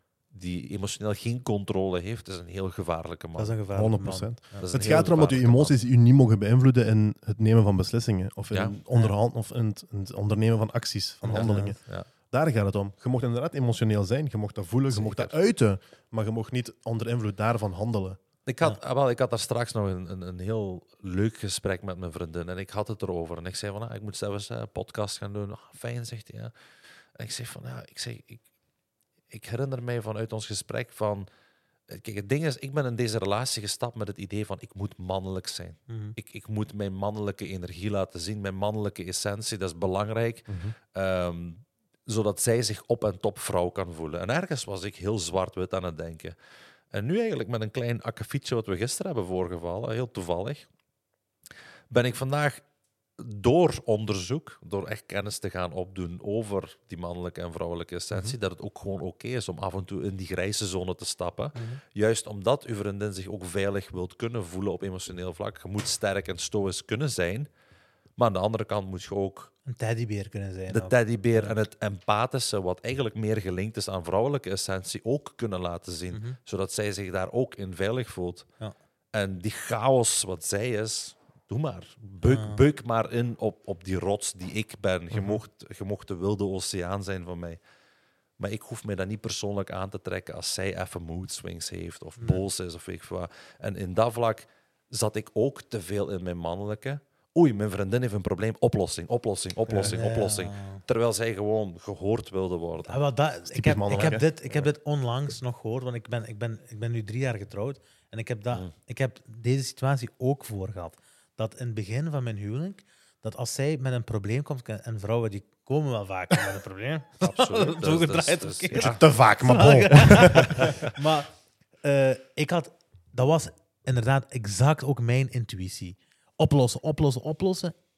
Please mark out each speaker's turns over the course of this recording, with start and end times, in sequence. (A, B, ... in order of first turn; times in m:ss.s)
0:00.3-0:03.6 A
0:03.4-0:04.7 B
0:03.7-0:18.2 C
0:04.6-0:05.7 A
0:08.5-0:08.8 A
0:11.3-0:12.1 A
0:11.3-0:11.8 B
0:14.9-0:15.4 A
0:18.4-0:26.5 A
0:27.1-0:28.4 A
0:29.3-0:31.3 A
0:31.9-0:46.4 A
0:35.9-0:36.2 B
0:40.5-0:40.7 C
0:46.9-0:50.7 A
0:51.9-0:52.6 A
0:53.2-1:07.5 A
1:01.6-1:01.8 B
1:08.2-1:09.5 A
1:09.6-1:11.6 B
1:10.7-1:18.5 A
1:16.1-1:16.4 B
1:19.1-1:27.6 A
1:22.2-1:22.6 B
1:28.4-1:43.0 A
1:32.2-1:32.4 B
1:39.7-1:40.8 B
1:42.8-2:07.7 B
1:43.5-1:44.2 C
1:57.2-1:59.0 A
1:58.8-2:00.9 C